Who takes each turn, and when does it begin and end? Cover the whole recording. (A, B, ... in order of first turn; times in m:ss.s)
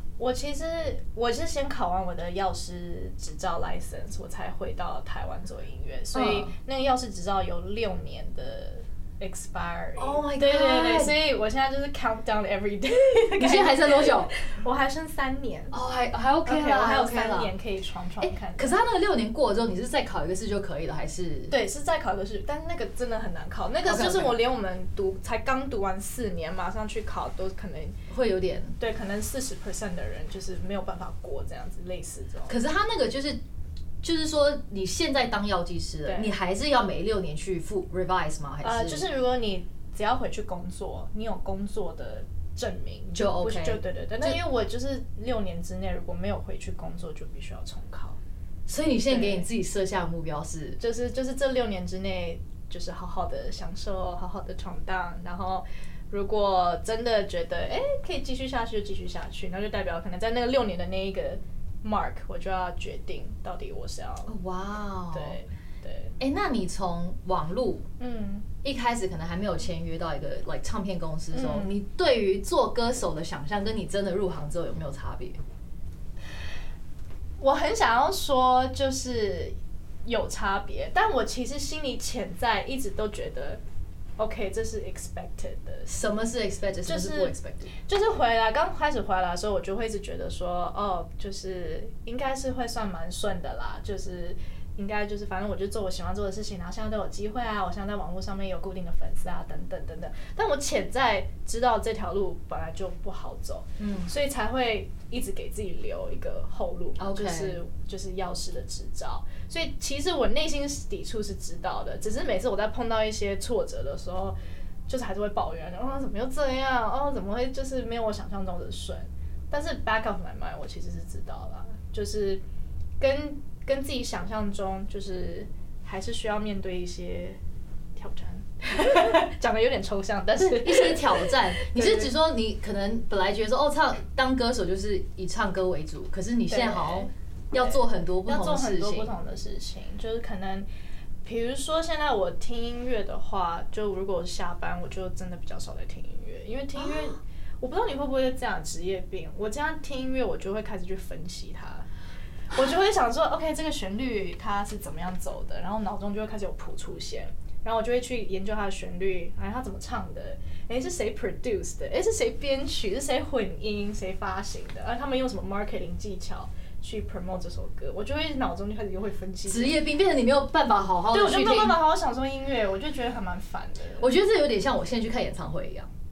0:00.2-0:15.8 A
0:06.1-0:06.5 B
0:10.0-0:11.2 B
0:13.4-0:14.3 B
0:15.7-0:17.5 B
0:16.4-0:18.8 A
0:18.2-0:21.6 B
0:21.5-0:28.0 A
0:23.8-0:24.4 B
0:28.1-0:28.8 B
0:28.8-0:32.6 A
0:32.5-0:33.4 B
0:34.0-0:39.1 B
0:36.0-0:36.3 A
0:38.6-0:48.2 A
0:43.1-0:44.4 B
0:48.7-0:50.8 B
0:49.1-0:49.5 A
0:50.8-1:04.3 A
1:04.3-1:05.4 B
1:05.1-1:06.2 A
1:06.2-1:07.9 B
1:08.0-1:08.4 A
1:08.6-1:15.4 B
1:11.3-1:11.8 A
1:17.4-1:23.6 A
1:24.2-1:25.9 A
1:25.8-1:27.7 B
1:26.8-1:54.4 A
1:43.8-1:44.1 B
1:47.0-1:47.6 B
1:54.9-2:02.4 A
2:03.0-2:07.4 A
2:08.0-2:12.1 A
2:10.3-2:19.1 B
2:16.5-2:20.7 A
2:21.2-2:31.8 A
2:26.8-2:27.1 B
2:32.5-2:49.8 A
2:49.5-2:51.8 B
2:51.1-2:54.1 A
2:54.0-2:55.9 B